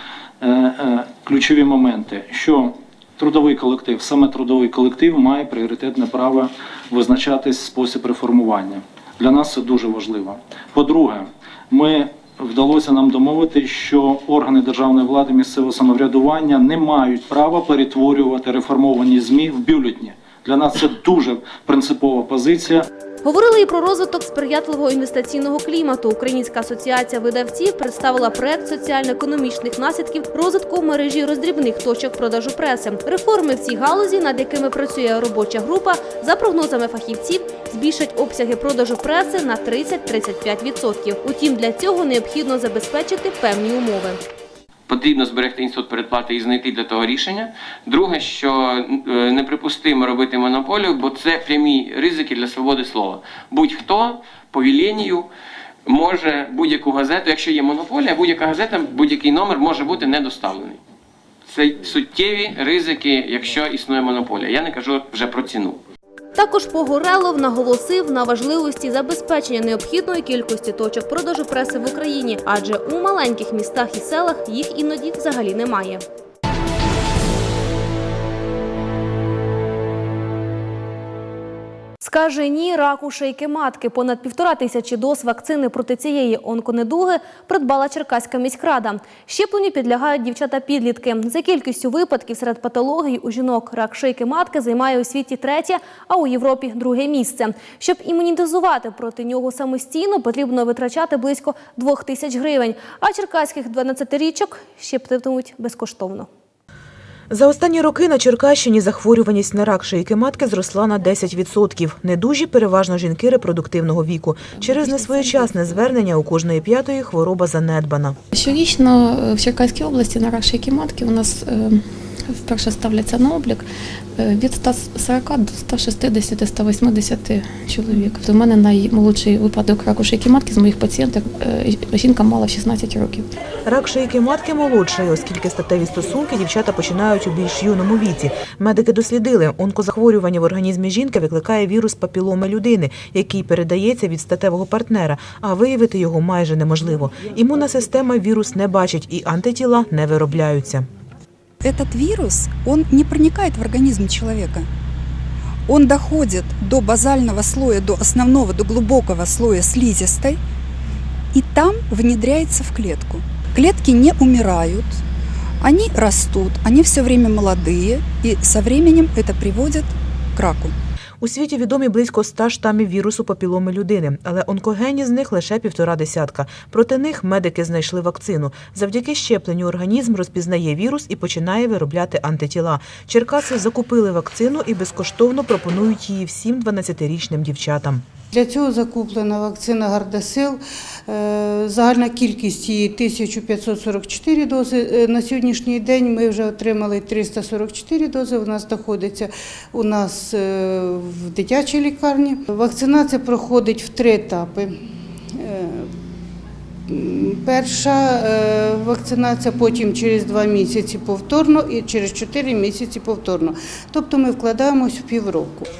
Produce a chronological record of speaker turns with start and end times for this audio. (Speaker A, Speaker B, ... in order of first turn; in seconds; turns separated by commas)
Speaker A: 0.4-22.9, Speaker B: 23.2-44.2, Speaker C: 44.9-55.3, Speaker C: 55.8-60.8, Speaker C: 61.5-65.8, Speaker B: 66.3-76.0, Speaker B: 82.0-106.3, Speaker D: 107.3-118.2, Speaker E: 114.9-115.4, Speaker E: 118.3-123.7, Speaker E: 124.2-133.3, Speaker D: 133.7-150.9, Speaker F: 151.6-154.7, Speaker F: 155.7-160.4, Speaker F: 161.3-165.0, Speaker F: 165.6-170.7, Speaker D: 171.2-188.0, Speaker G: 188.3-204.7, Speaker G: 205.3-205.8, Speaker G: 206.9-215.7